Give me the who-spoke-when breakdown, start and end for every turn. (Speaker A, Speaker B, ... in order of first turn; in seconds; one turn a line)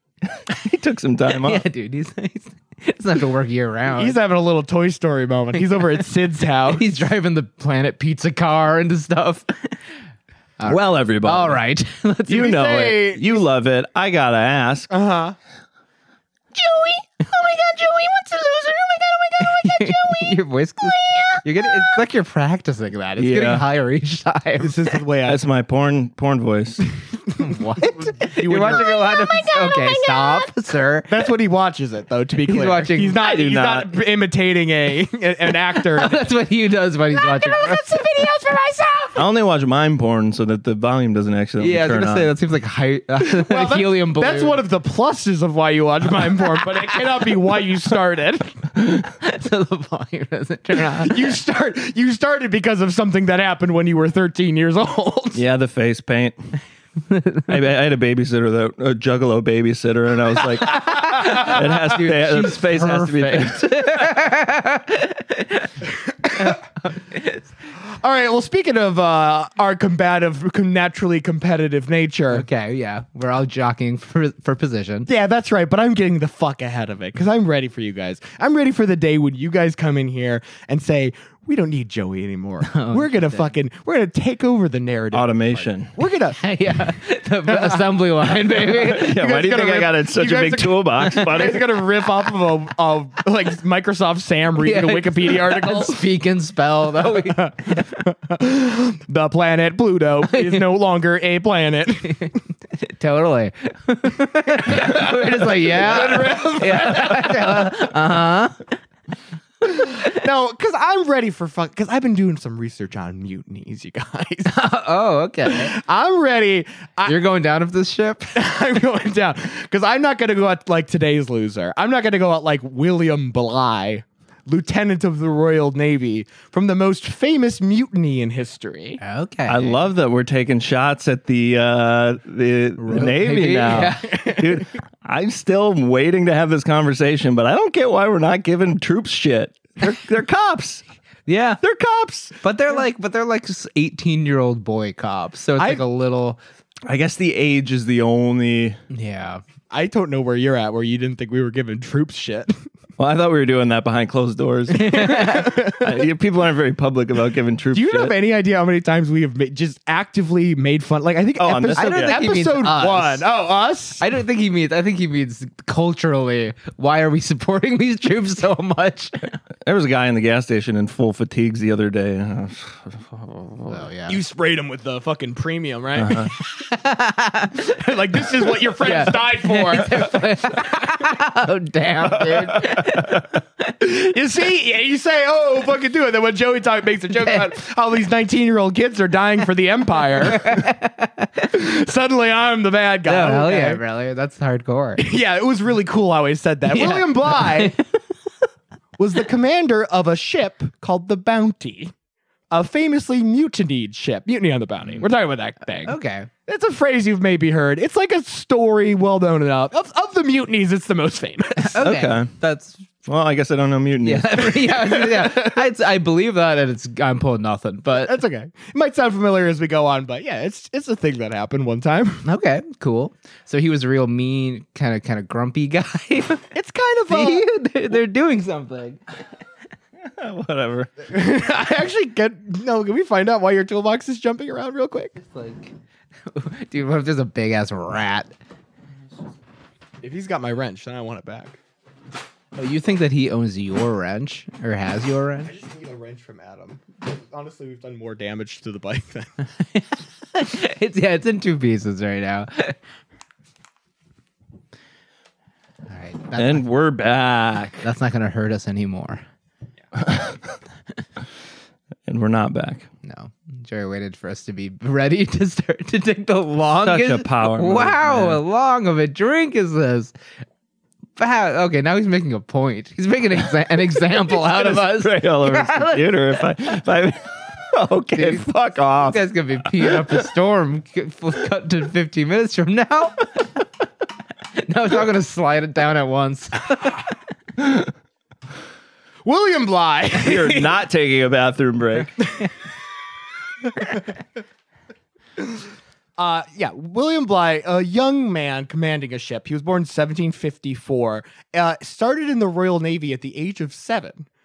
Speaker A: 0.2-1.6
Speaker B: 1.3-4.2
Speaker C: 4.0-7.0
Speaker B: 6.7-9.8
Speaker B: 10.6-12.6
Speaker A: 10.7-11.6
Speaker C: 12.3-13.4
Speaker A: 12.3-14.9
Speaker C: 14.9-15.4
Speaker D: 16.8-20.4
Speaker B: 19.4-24.9
Speaker A: 23.2-23.6
Speaker C: 24.6-25.4
Speaker A: 25.2-26.8
Speaker B: 27.4-31.1
Speaker C: 27.7-29.3
Speaker D: 28.9-30.5
Speaker C: 31.1-36.3
Speaker B: 32.5-33.2
Speaker A: 33.2-34.0
Speaker B: 35.9-38.3
Speaker D: 37.2-39.2
Speaker A: 39.1-42.3
Speaker B: 41.6-44.6
Speaker C: 43.2-48.6
Speaker B: 46.6-46.9
Speaker B: 49.1-51.3
Speaker C: 50.9-55.4
Speaker A: 55.3-56.5
Speaker B: 57.1-57.5
Speaker A: 57.5-63.7
Speaker B: 60.7-65.8
Speaker B: 66.3-67.5
Speaker C: 68.0-72.5
Speaker B: 72.3-75.1
Speaker C: 75.1-86.4
Speaker B: 82.7-83.5
Speaker A: 85.1-85.9
Speaker B: 86.4-89.2
Speaker C: 87.5-96.0
Speaker A: 88.7-91.8
Speaker B: 94.6-98.0
Speaker C: 97.1-102.4
Speaker B: 100.3-100.6
Speaker B: 102.8-108.7
Speaker C: 104.7-107.8
Speaker C: 109.6-114.5
Speaker B: 114.5-115.8
Speaker C: 115.5-117.2
Speaker B: 117.1-118.4
Speaker C: 118.3-129.0
Speaker B: 129.0-129.8
Speaker A: 129.5-140.8
Speaker B: 132.8-134.5
Speaker C: 134.1-134.5
Speaker B: 141.3-141.6
Speaker A: 141.6-142.3
Speaker B: 142.4-146.4
Speaker C: 145.6-145.8
Speaker A: 146.9-148.8
Speaker B: 148.9-149.4
Speaker C: 149.7-152.6
Speaker A: 153.0-158.2
Speaker B: 154.7-155.5
Speaker C: 154.9-156.0
Speaker C: 157.7-164.0
Speaker A: 161.4-162.2
Speaker B: 161.7-163.2
Speaker B: 164.0-169.4
Speaker A: 169.6-173.8
Speaker B: 173.7-174.2
Speaker C: 174.1-176.3
Speaker A: 176.0-176.3
Speaker B: 176.3-177.7
Speaker C: 177.6-180.3
Speaker B: 178.8-183.3
Speaker A: 182.1-183.2
Speaker C: 183.8-190.7
Speaker B: 190.2-191.5
Speaker C: 191.5-193.8
Speaker B: 193.1-195.0
Speaker C: 195.0-197.8
Speaker B: 196.7-197.8
Speaker C: 199.0-201.9
Speaker C: 202.5-205.9
Speaker B: 205.8-206.3
Speaker C: 206.5-211.8
Speaker B: 211.6-212.9
Speaker A: 211.8-212.3
Speaker A: 213.1-214.7
Speaker B: 214.0-218.2
Speaker C: 215.0-215.6
Speaker C: 218.0-222.2
Speaker B: 222.2-226.4
Speaker C: 226.5-227.5
Speaker B: 227.1-229.0
Speaker A: 230.0-230.9
Speaker C: 231.1-235.2
Speaker B: 235.2-235.7
Speaker B: 236.3-238.3
Speaker C: 240.0-241.6
Speaker B: 242.6-245.5
Speaker C: 245.4-249.3
Speaker B: 249.7-252.8
Speaker B: 255.9-256.7
Speaker A: 256.4-257.9
Speaker B: 257.8-259.2
Speaker A: 259.9-260.5
Speaker A: 262.1-262.9
Speaker B: 263.0-270.1
Speaker A: 266.8-268.4
Speaker B: 271.2-276.2
Speaker A: 274.3-279.3
Speaker B: 278.1-283.5
Speaker A: 279.8-280.1
Speaker B: 284.6-287.0
Speaker C: 289.2-290.8
Speaker A: 290.1-292.2
Speaker C: 296.2-304.3